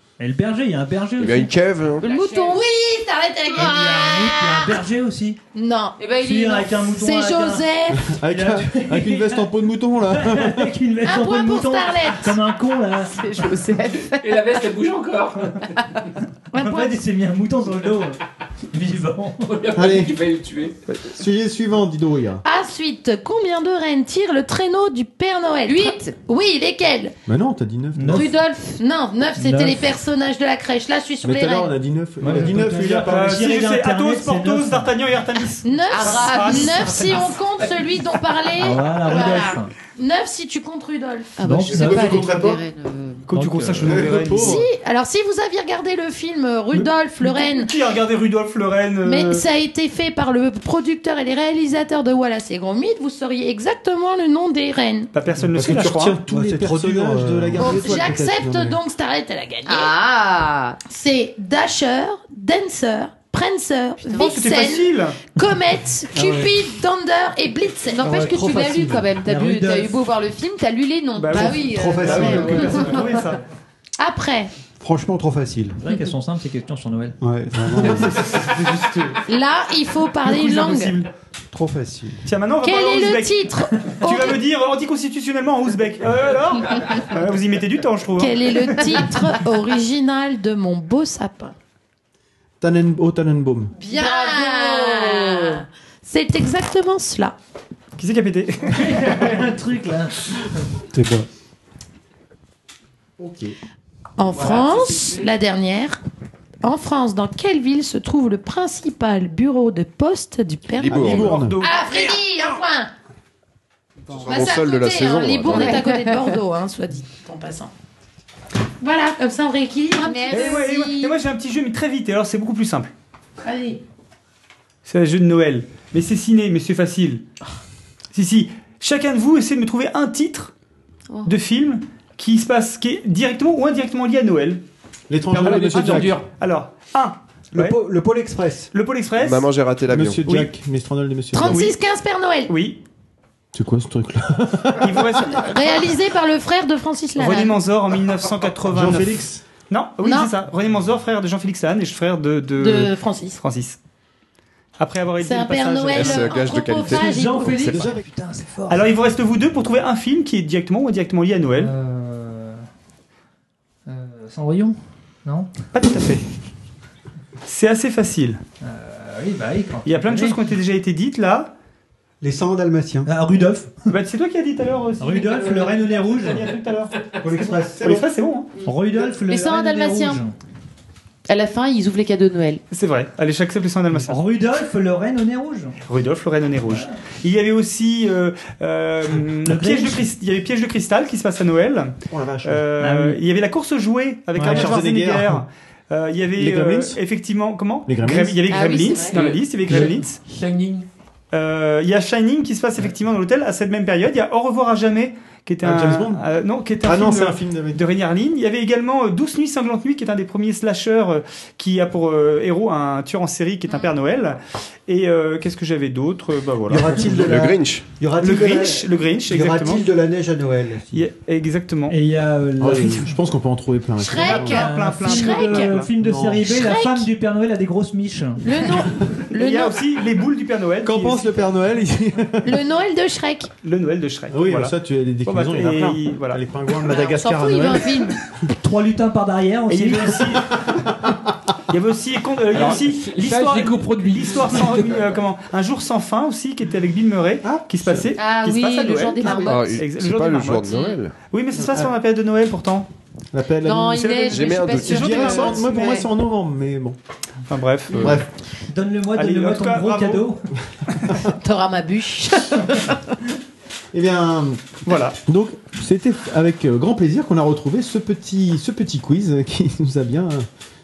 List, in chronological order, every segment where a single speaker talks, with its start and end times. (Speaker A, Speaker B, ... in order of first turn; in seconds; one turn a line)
Speaker A: 0.2-1.5
Speaker B: 1.2-2.1
Speaker C: 2.0-2.7
Speaker D: 2.0-4.7
Speaker C: 3.5-4.3
Speaker A: 3.5-5.4
Speaker D: 5.5-6.0
Speaker C: 6.0-6.8
Speaker A: 6.2-7.7
Speaker D: 6.9-8.1
Speaker E: 7.9-10.7
Speaker A: 8.2-9.5
Speaker A: 10.1-13.2
Speaker D: 11.0-12.4
Speaker C: 13.1-14.4
Speaker F: 14.1-15.8
Speaker D: 16.5-17.0
Speaker A: 16.6-18.2
Speaker A: 18.7-19.6
Speaker F: 19.5-20.8
Speaker E: 19.8-20.2
Speaker E: 21.1-22.4
Speaker D: 22.4-27.1
Speaker C: 25.7-26.2
Speaker E: 27.3-28.3
Speaker A: 28.0-28.3
Speaker D: 28.1-31.7
Speaker C: 28.1-28.8
Speaker A: 29.4-29.9
Speaker E: 31.2-33.4
Speaker A: 32.2-34.9
Speaker G: 33.1-37.2
Speaker D: 35.6-41.4
Speaker C: 35.9-37.4
Speaker A: 38.6-39.7
Speaker C: 41.4-43.3
Speaker A: 41.4-42.4
Speaker E: 41.7-42.6
Speaker G: 43.3-44.7
Speaker A: 43.3-44.2
Speaker E: 43.8-44.7
Speaker D: 44.3-47.7
Speaker G: 46.7-49.5
Speaker D: 49.0-55.1
Speaker G: 55.1-56.2
Speaker E: 55.5-58.8
Speaker H: 56.3-58.1
Speaker D: 57.6-60.0
Speaker C: 59.7-60.8
Speaker D: 60.9-68.5
Speaker G: 64.1-65.2
Speaker H: 66.2-66.4
Speaker C: 67.9-73.2
Speaker H: 68.2-69.0
Speaker A: 69.2-70.0
Speaker G: 71.2-73.4
Speaker H: 71.3-73.1
Speaker D: 71.6-73.1
Speaker D: 74.0-74.5
Speaker H: 74.8-75.8
Speaker A: 75.8-77.2
Speaker H: 77.2-78.5
Speaker G: 78.1-79.2
Speaker D: 79.3-81.0
Speaker G: 80.2-81.1
Speaker H: 81.5-82.3
Speaker G: 82.3-89.2
Speaker D: 82.6-84.4
Speaker D: 88.2-91.5
Speaker E: 92.6-93.8
Speaker D: 93.8-97.3
Speaker C: 93.9-95.6
Speaker G: 98.0-99.2
Speaker A: 98.7-100.4
Speaker H: 100.9-101.3
Speaker E: 103.2-103.5
Speaker D: 104.2-106.0
Speaker F: 104.4-105.1
Speaker D: 106.6-112.9
Speaker B: 110.8-111.3
Speaker E: 110.8-111.5
Speaker G: 110.9-112.1
Speaker B: 114.1-115.8
Speaker D: 114.1-117.7
Speaker C: 115.4-116.4
Speaker D: 118.8-120.6
Speaker C: 120.0-121.2
Speaker G: 120.3-122.9
Speaker D: 123.4-123.8
Speaker G: 124.9-127.2
Speaker G: 128.1-130.5
Speaker G: 131.2-134.6
Speaker E: 135.1-136.2
Speaker G: 135.3-137.8
Speaker F: 135.4-136.3
Speaker H: 137.5-138.7
Speaker G: 138.7-139.5
Speaker B: 139.2-140.3
Speaker E: 139.9-141.7
Speaker G: 140.3-140.5
Speaker D: 141.3-142.5
Speaker G: 141.4-141.8
Speaker G: 142.5-142.8
Speaker E: 143.5-145.3
Speaker G: 144.8-145.5
Speaker D: 145.4-147.6
Speaker G: 147.2-153.8
Speaker E: 148.7-149.4
Speaker D: 150.0-150.3
Speaker D: 152.6-153.4
Speaker G: 154.8-156.4
Speaker D: 155.2-157.8
Speaker B: 155.9-157.8
Speaker A: 156.8-158.9
Speaker E: 157.7-158.0
Speaker G: 158.7-161.7
Speaker A: 161.6-162.6
Speaker A: 163.9-165.5
Speaker G: 165.7-166.2
Speaker G: 167.5-168.4
Speaker A: 168.6-170.4
Speaker G: 169.9-171.5
Speaker H: 172.2-173.1
Speaker A: 173.1-173.9
Speaker G: 173.9-177.1
Speaker A: 175.0-176.5
Speaker H: 177.2-178.1
Speaker G: 177.8-178.5
Speaker A: 178.7-180.3
Speaker D: 179.3-180.2
Speaker C: 181.3-182.6
Speaker G: 182.7-184.2
Speaker A: 184.0-185.8
Speaker G: 185.8-191.9
Speaker A: 186.7-187.0
Speaker A: 189.4-190.1
Speaker E: 192.1-192.7
Speaker G: 192.4-200.2
Speaker A: 192.8-193.2
Speaker A: 194.4-194.8
Speaker E: 194.4-195.4
Speaker E: 196.4-197.0
Speaker E: 197.9-198.4
Speaker C: 198.5-199.3
Speaker F: 199.0-200.9
Speaker G: 201.3-217.2
Speaker E: 205.6-206.2
Speaker E: 206.8-207.8
Speaker H: 216.7-221.0
Speaker B: 217.0-217.9
Speaker G: 218.2-219.8
Speaker G: 220.9-222.0
Speaker A: 221.9-223.2
Speaker E: 222.6-224.7
Speaker D: 224.0-225.7
Speaker G: 224.2-225.9
Speaker A: 224.4-228.4
Speaker H: 226.0-226.3
Speaker D: 226.4-227.1
Speaker D: 228.4-229.8
Speaker G: 229.3-231.3
Speaker E: 230.8-232.6
Speaker D: 232.4-233.5
Speaker G: 233.6-234.7
Speaker E: 234.3-238.2
Speaker G: 235.2-236.4
Speaker D: 236.8-238.2
Speaker A: 238.5-240.3
Speaker G: 239.7-240.6
Speaker G: 241.7-250.8
Speaker F: 242.5-245.0
Speaker E: 247.4-248.1
Speaker C: 248.2-249.8
Speaker B: 249.3-251.2
Speaker C: 250.7-251.0
Speaker G: 251.3-252.9
Speaker E: 251.6-251.9
Speaker E: 253.3-257.0
Speaker C: 253.6-256.1
Speaker G: 254.2-256.0
Speaker B: 254.2-255.1
Speaker G: 257.5-258.2
Speaker B: 257.9-258.2
Speaker E: 257.9-258.3
Speaker A: 258.7-260.4
Speaker G: 259.1-260.3
Speaker D: 261.3-262.8
Speaker E: 263.9-270.5
Speaker G: 264.9-265.2